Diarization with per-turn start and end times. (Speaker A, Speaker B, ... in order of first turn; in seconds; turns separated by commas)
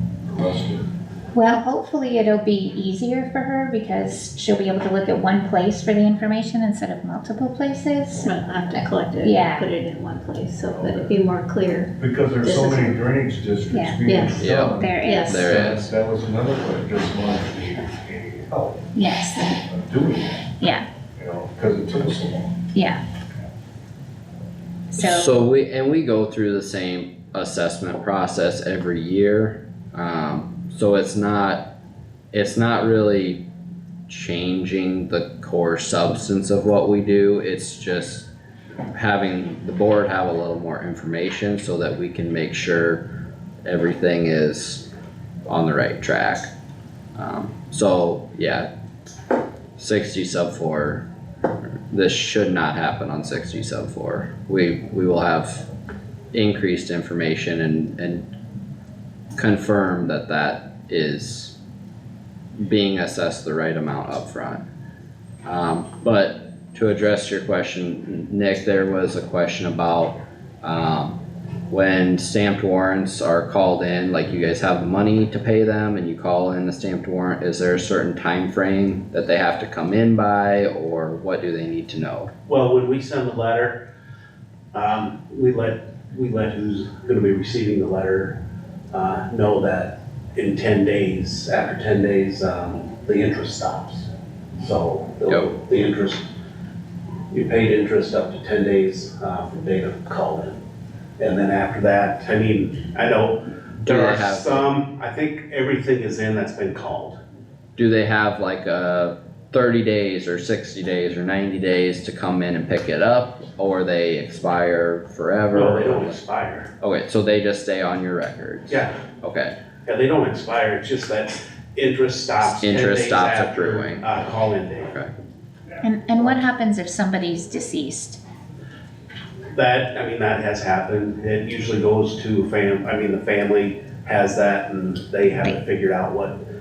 Speaker A: 0.3-0.8, Speaker B: 1.3-8.3, Speaker C: 8.2-13.0, Speaker B: 9.2-9.8, Speaker A: 10.7-11.1, Speaker A: 12.0-18.7, Speaker B: 13.7-15.8, Speaker C: 14.1-14.4, Speaker D: 14.4-15.9, Speaker C: 15.0-15.5, Speaker B: 18.9-19.5, Speaker A: 19.6-20.5, Speaker B: 20.6-20.9, Speaker A: 21.2-22.6, Speaker B: 22.7-23.0, Speaker B: 24.9-25.3, Speaker D: 25.0-31.7, Speaker D: 32.3-33.4, Speaker D: 34.1-38.3, Speaker D: 38.9-43.1, Speaker D: 43.6-44.8, Speaker D: 45.5-46.5, Speaker D: 47.1-48.7, Speaker D: 49.8-51.1, Speaker D: 51.9-55.6, Speaker D: 56.3-58.3, Speaker D: 59.4-61.5, Speaker D: 62.6-64.7, Speaker D: 65.4-82.3, Speaker E: 82.5-83.8, Speaker E: 84.7-88.4, Speaker E: 88.9-96.2, Speaker E: 97.3-100.6, Speaker E: 101.2-107.2, Speaker D: 103.8-104.7, Speaker D: 107.8-116.2, Speaker E: 115.5-116.7, Speaker D: 116.8-119.5, Speaker E: 118.7-118.9, Speaker E: 119.8-125.0, Speaker D: 122.6-124.1, Speaker B: 125.8-128.2, Speaker E: 129.5-136.4